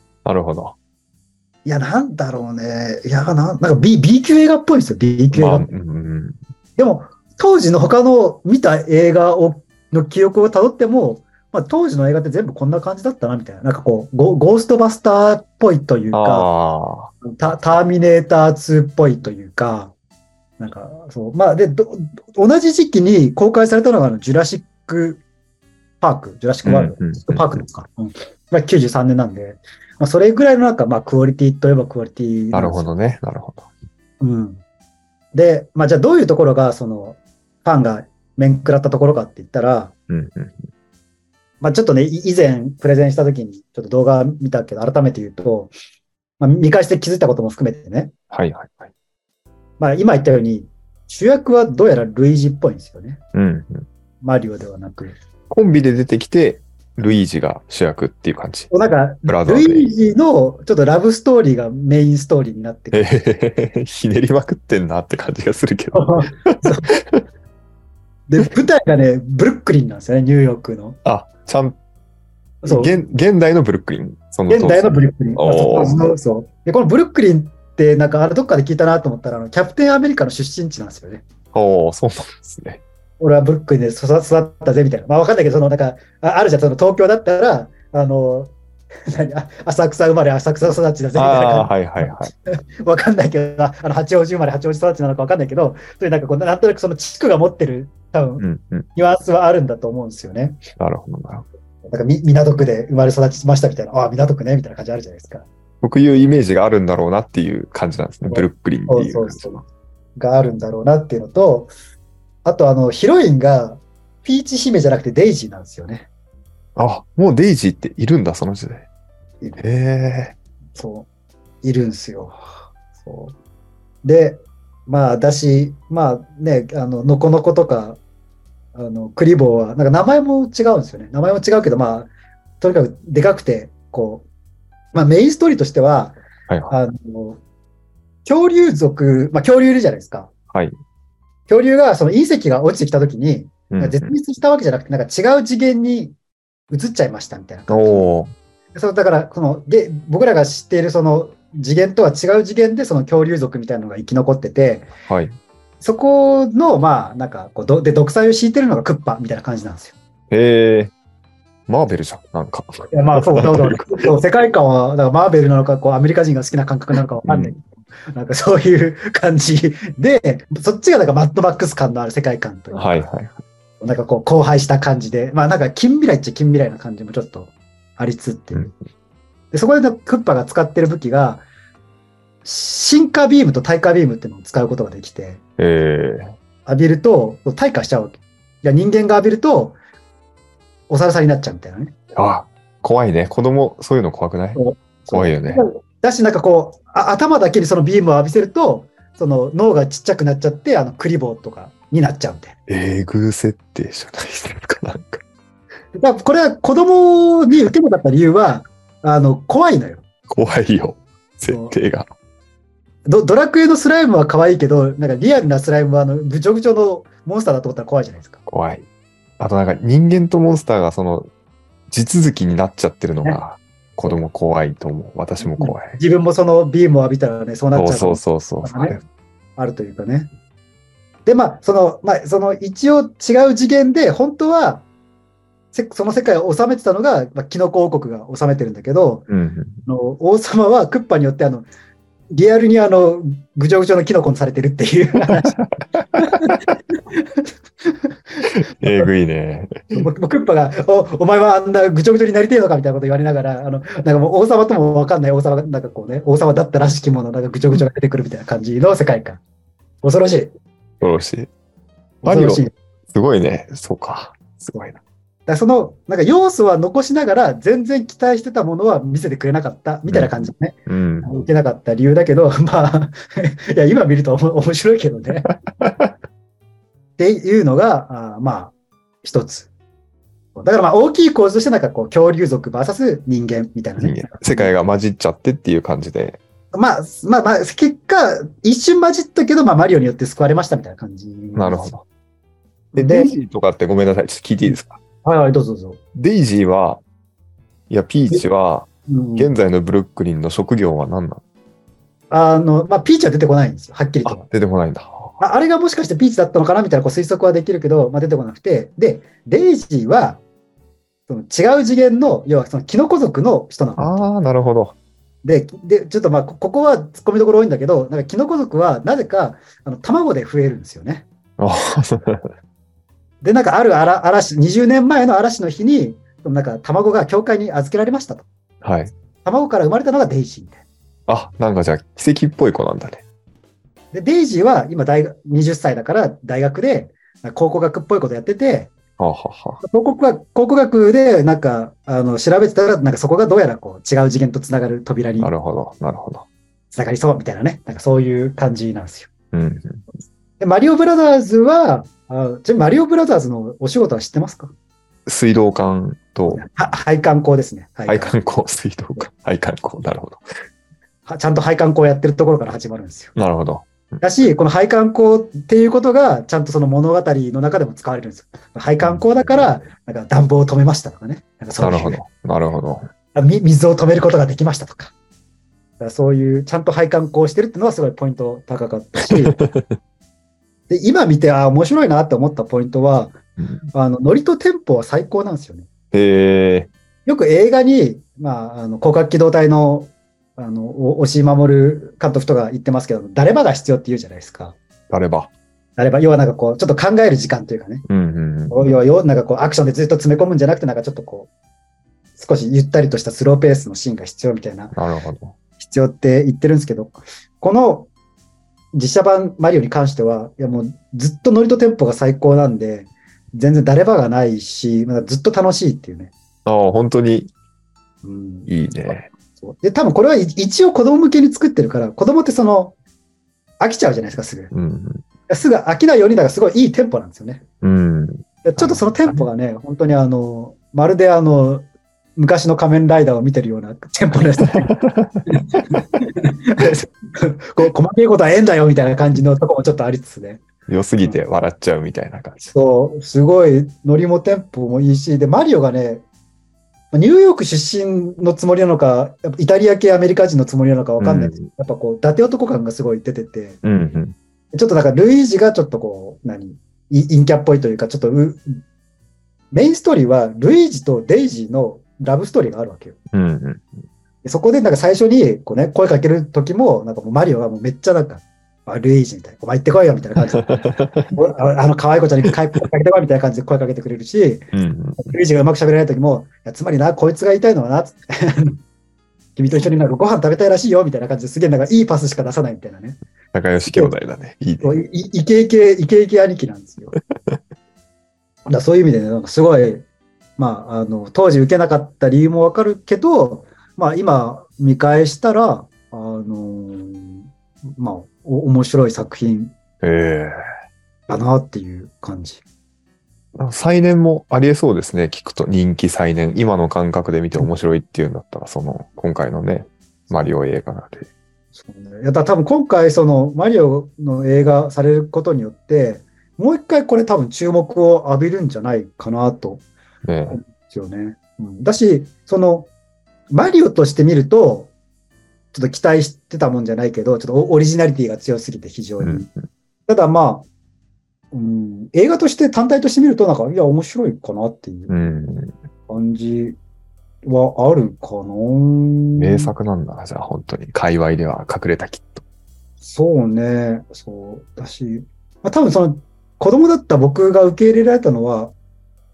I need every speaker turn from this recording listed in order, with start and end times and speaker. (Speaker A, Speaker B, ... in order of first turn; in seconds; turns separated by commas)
Speaker A: 0.2-0.7, Speaker B: 1.6-5.7, Speaker A: 5.3-6.4, Speaker B: 6.8-16.5, Speaker A: 16.1-17.1, Speaker B: 17.2-19.9, Speaker B: 20.6-25.2, Speaker B: 26.0-32.9, Speaker A: 26.6-27.6, Speaker A: 32.5-33.7, Speaker B: 34.2-34.6, Speaker B: 35.3-39.9, Speaker A: 40.1-40.7, Speaker B: 41.6-45.7, Speaker B: 46.4-48.1, Speaker A: 48.3-48.9, Speaker B: 49.8-53.2, Speaker A: 53.3-53.9, Speaker B: 54.2-55.1, Speaker A: 55.5-58.7, Speaker B: 58.7-63.1, Speaker A: 59.2-59.9, Speaker A: 62.9-67.2, Speaker B: 65.9-66.9, Speaker B: 68.3-71.0, Speaker A: 71.0-71.8, Speaker B: 72.6-73.0, Speaker A: 72.6-76.0, Speaker B: 74.5-81.2, Speaker A: 81.5-82.8, Speaker B: 83.2-88.5, Speaker B: 89.1-100.6, Speaker A: 91.1-92.3, Speaker A: 98.4-98.9, Speaker A: 100.8-101.5, Speaker B: 101.8-105.5, Speaker A: 105.8-109.5, Speaker B: 108.2-109.6, Speaker B: 110.2-111.7, Speaker B: 112.4-116.1, Speaker A: 116.8-118.8, Speaker A: 119.6-120.3, Speaker B: 120.8-121.1, Speaker B: 121.6-122.4, Speaker B: 123.0-123.3, Speaker B: 124.0-128.0, Speaker B: 128.7-132.1, Speaker B: 132.6-134.2, Speaker B: 134.9-136.2, Speaker A: 136.5-136.7, Speaker B: 136.7-137.4, Speaker B: 138.2-140.3, Speaker B: 141.5-146.2, Speaker A: 143.7-144.1, Speaker B: 146.7-148.1, Speaker A: 147.7-148.3, Speaker B: 148.7-154.9, Speaker A: 155.1-155.3, Speaker B: 155.8-159.9, Speaker A: 160.3-160.9, Speaker A: 161.7-164.1, Speaker B: 162.9-173.0, Speaker A: 167.2-167.5, Speaker A: 172.7-173.4, Speaker B: 173.8-178.7, Speaker B: 179.5-181.4, Speaker B: 182.4-185.4, Speaker A: 185.6-186.3, Speaker B: 186.7-189.8, Speaker B: 190.9-191.9, Speaker A: 192.1-194.6, Speaker B: 194.6-202.5, Speaker A: 195.1-195.6, Speaker A: 202.7-205.2, Speaker B: 205.9-210.0, Speaker A: 210.3-212.1, Speaker B: 211.5-211.7, Speaker B: 213.1-218.4, Speaker A: 218.5-218.8, Speaker A: 219.4-221.3, Speaker A: 221.9-226.0, Speaker B: 225.4-229.0, Speaker A: 227.7-229.0, Speaker B: 229.6-230.3, Speaker B: 231.2-234.8, Speaker B: 235.7-239.3, Speaker A: 239.3-239.8, Speaker B: 239.8-241.7, Speaker B: 242.3-245.6, Speaker A: 245.3-246.6, Speaker B: 246.1-249.1, Speaker A: 248.5-250.1, Speaker B: 249.9-259.4, Speaker B: 260.0-260.5, Speaker A: 261.0-261.5, Speaker B: 262.2-262.7, Speaker A: 262.2-265.0, Speaker B: 265.5-275.5, Speaker A: 270.1-270.3, Speaker A: 270.9-271.3, Speaker A: 275.8-276.1, Speaker B: 277.2-279.7, Speaker B: 280.5-284.7, Speaker A: 284.0-286.4, Speaker B: 286.7-291.9, Speaker A: 291.5-292.0, Speaker B: 292.9-293.3, Speaker A: 292.9-295.0, Speaker B: 294.6-296.0, Speaker A: 296.1-297.0, Speaker A: 297.9-301.4, Speaker B: 299.1-299.5, Speaker B: 302.3-304.4, Speaker A: 304.2-305.4, Speaker B: 305.4-310.4, Speaker B: 311.3-314.3, Speaker A: 314.0-314.9, Speaker B: 315.4-321.3, Speaker A: 321.6-322.5, Speaker B: 323.4-328.5, Speaker A: 328.8-329.1, Speaker B: 329.4-330.8, Speaker A: 331.3-333.2, Speaker B: 334.1-338.9, Speaker A: 339.2-339.8, Speaker B: 339.8-345.5, Speaker A: 345.4-346.4, Speaker B: 346.9-349.3, Speaker A: 349.5-350.0, Speaker B: 350.6-354.7, Speaker A: 355.2-356.6, Speaker B: 356.5-358.4, Speaker A: 358.1-360.4, Speaker B: 361.2-363.3, Speaker A: 363.4-364.2, Speaker B: 364.2-372.2, Speaker A: 369.0-369.7, Speaker A: 371.8-373.1, Speaker B: 373.3-375.1, Speaker B: 376.0-379.6, Speaker A: 379.3-380.0, Speaker B: 380.9-383.4, Speaker A: 383.6-383.8, Speaker B: 383.9-385.9, Speaker A: 386.1-386.9, Speaker B: 387.2-394.8, Speaker A: 395.1-395.5, Speaker B: 396.0-398.0, Speaker A: 398.1-398.9, Speaker B: 398.7-401.5, Speaker B: 402.4-404.9, Speaker A: 404.9-405.5, Speaker B: 405.8-408.1, Speaker B: 408.9-416.3, Speaker A: 416.6-417.5, Speaker B: 418.2-422.9, Speaker A: 418.7-419.3, Speaker B: 423.8-424.7, Speaker A: 424.7-425.2, Speaker B: 425.5-427.6, Speaker A: 427.8-429.4, Speaker B: 428.6-434.9, Speaker A: 434.6-435.4, Speaker B: 435.5-440.6, Speaker A: 440.9-442.7, Speaker B: 442.7-446.2, Speaker B: 447.1-453.8, Speaker A: 451.2-451.7, Speaker A: 453.8-454.3, Speaker B: 454.7-458.8, Speaker B: 459.7-463.2, Speaker A: 463.3-463.9, Speaker B: 464.4-474.7, Speaker A: 470.6-471.3, Speaker A: 474.7-475.4, Speaker B: 475.2-478.8, Speaker B: 479.6-483.2, Speaker A: 483.5-485.0, Speaker B: 483.9-484.1, Speaker B: 484.8-487.1, Speaker B: 488.7-490.1, Speaker B: 490.6-499.7, Speaker A: 500.0-500.6, Speaker B: 501.3-502.6, Speaker A: 503.6-511.3, Speaker B: 511.7-519.8, Speaker A: 520.2-520.6, Speaker B: 520.5-522.9, Speaker B: 523.5-524.9, Speaker B: 525.7-529.5, Speaker A: 529.2-529.6, Speaker B: 530.1-530.7, Speaker B: 531.5-535.1, Speaker A: 535.1-535.8, Speaker B: 536.1-536.8, Speaker B: 537.4-539.7, Speaker A: 539.4-542.4, Speaker B: 543.0-548.7